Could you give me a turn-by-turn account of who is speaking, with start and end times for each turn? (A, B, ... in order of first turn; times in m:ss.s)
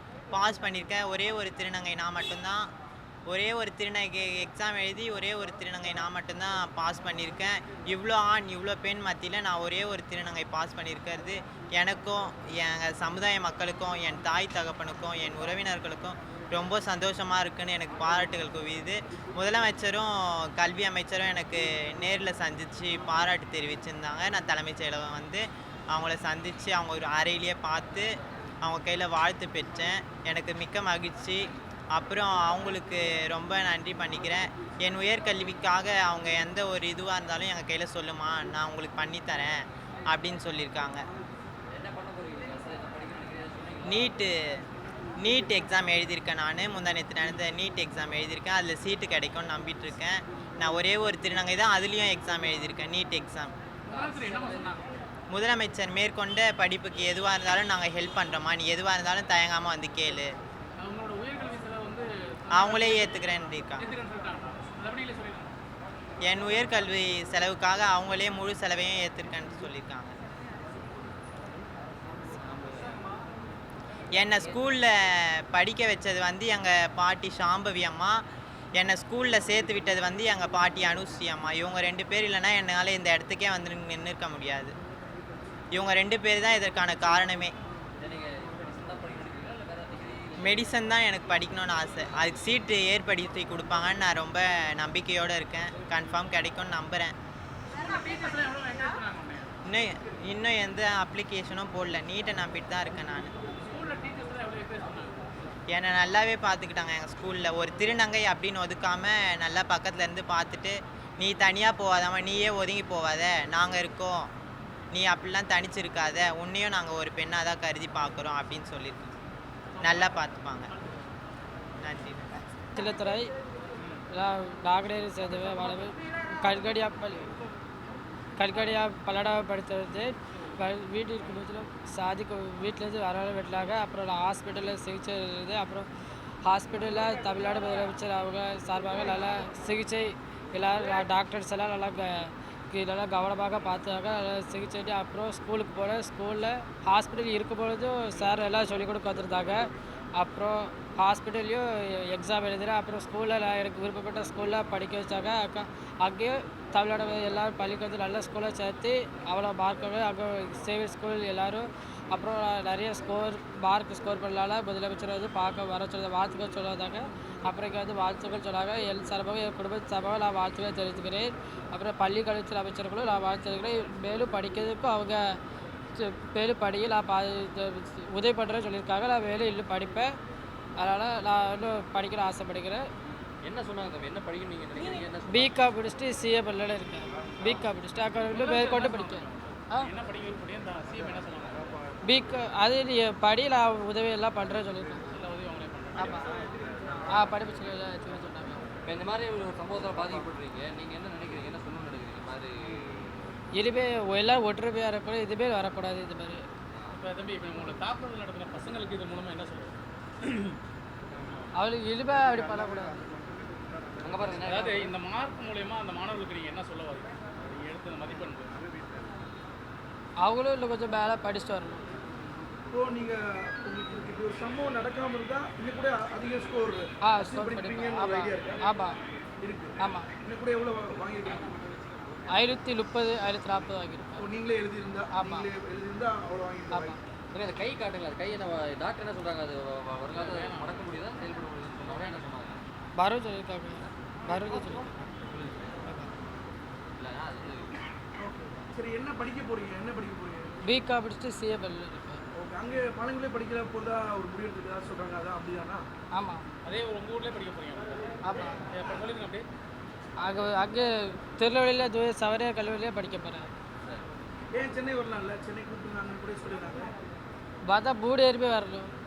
0:00.3-0:02.7 A
0:03.3-0:41.0 A
0:41.7-0:44.2 B
0:43.8-0:44.6 A
0:45.2-0:53.5 A
0:53.9-0:54.8 C
0:55.3-1:00.3 A
1:00.8-1:03.2 C
1:02.5-1:03.8 A
1:03.8-1:05.5 C
1:06.2-1:10.2 A
1:12.3-1:13.0 B
1:14.2-1:18.2 A
1:18.8-1:24.7 A
1:25.7-1:27.5 A
1:28.0-1:30.8 B
1:30.4-1:37.1 A
1:37.7-1:39.6 C
1:39.6-1:43.3 A
1:43.5-1:45.3 C
1:45.7-1:54.3 A
1:54.9-1:59.2 A
1:59.7-2:00.9 C
1:59.8-2:00.7 A
2:01.8-2:02.4 A
2:02.7-2:03.3 D
2:04.1-2:07.3 D
2:08.4-2:15.9 D
2:16.4-2:55.4 D
2:55.9-3:00.1 D
3:00.8-3:02.8 D
3:03.4-3:05.6 B
3:05.3-3:09.9 D
3:08.3-3:11.6 C
3:12.0-3:15.1 D
3:15.1-3:16.2 C
3:16.0-3:16.3 D
3:17.1-3:18.6 D
3:18.8-3:23.3 B
3:23.6-3:26.4 D
3:26.7-3:27.0 B
3:26.9-3:30.6 C
3:31.6-3:33.1 D
3:34.0-3:34.9 B
3:34.3-3:38.5 C
3:40.2-3:41.8 D
3:42.7-3:48.6 E
3:47.0-3:49.0 D
3:49.4-3:51.6 E
3:49.8-3:50.1 D
3:52.3-3:54.3 D
3:54.2-3:57.0 E
3:55.1-3:55.5 D
3:56.7-3:57.0 D
3:57.3-4:02.6 B
4:00.1-4:01.0 C
4:01.8-4:02.2 C
4:03.0-4:05.0 D
4:05.3-4:05.8 B
4:05.8-4:06.1 D
4:07.0-4:07.8 B
4:08.2-4:10.5 E
4:10.6-4:12.2 D
4:12.3-4:15.9 E
4:16.1-4:16.4 D
4:16.6-4:19.4 C
4:18.2-4:18.6 D
4:20.2-4:23.5 D
4:24.5-4:26.9 E
4:27.7-4:28.9 D